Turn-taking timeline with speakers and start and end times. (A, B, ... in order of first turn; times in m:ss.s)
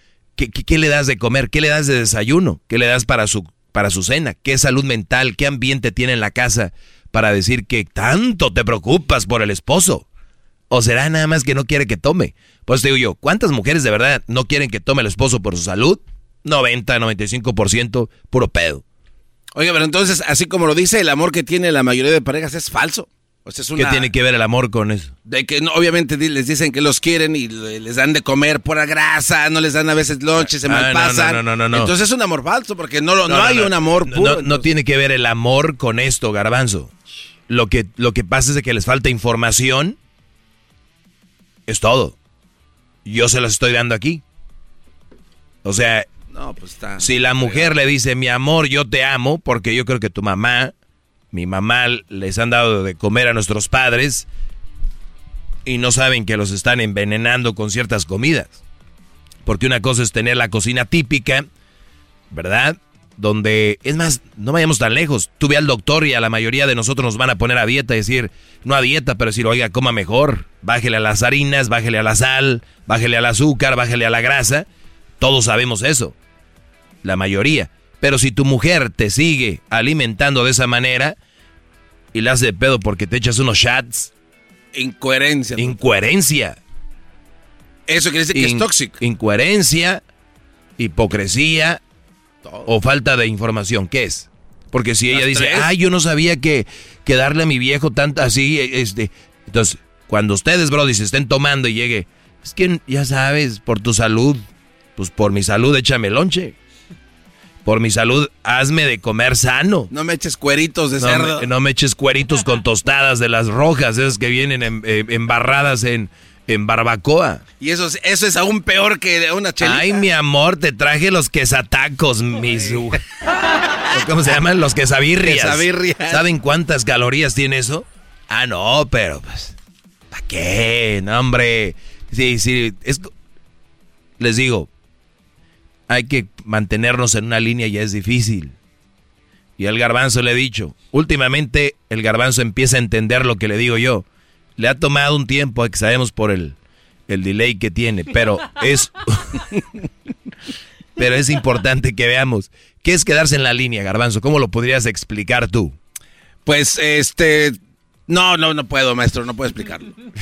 0:00.4-0:10.0 A
0:10.7-0:18.8 A
0:19.5-0:24.1 B
0:23.8-0:25.1 A
0:25.3-0:34.6 B
0:30.4-0:31.9 A
0:33.3-0:36.9 A
0:37.5-0:40.0 A
0:41.7-0:42.2 A
0:43.0-0:44.2 A
0:45.6-0:46.1 A
0:46.3-0:47.7 B
0:47.0-0:50.7 A
0:51.3-0:54.3 A
0:55.6-0:58.6 A
0:59.4-1:01.5 A
1:02.3-1:14.7 A
1:15.2-1:16.1 A
1:17.0-1:21.2 A
1:22.1-1:24.1 A
1:24.7-1:25.7 B
1:25.6-1:26.6 A
1:27.9-1:29.0 B
1:28.3-1:30.0 A
1:30.8-1:31.8 A
1:32.6-1:46.5 A
1:35.1-1:35.6 B
1:47.6-1:49.9 A
1:49.9-1:51.4 B
1:51.0-1:57.4 A
1:57.6-2:00.0 B
1:59.6-2:03.0 A
2:03.9-2:09.5 A
2:05.2-2:06.2 B
2:10.1-2:13.1 A
2:14.2-2:14.7 A
2:15.9-2:18.5 A
2:19.6-2:24.0 A
2:24.6-2:26.6 A
2:27.1-2:29.4 A
2:31.0-2:35.7 A
2:36.4-2:39.9 B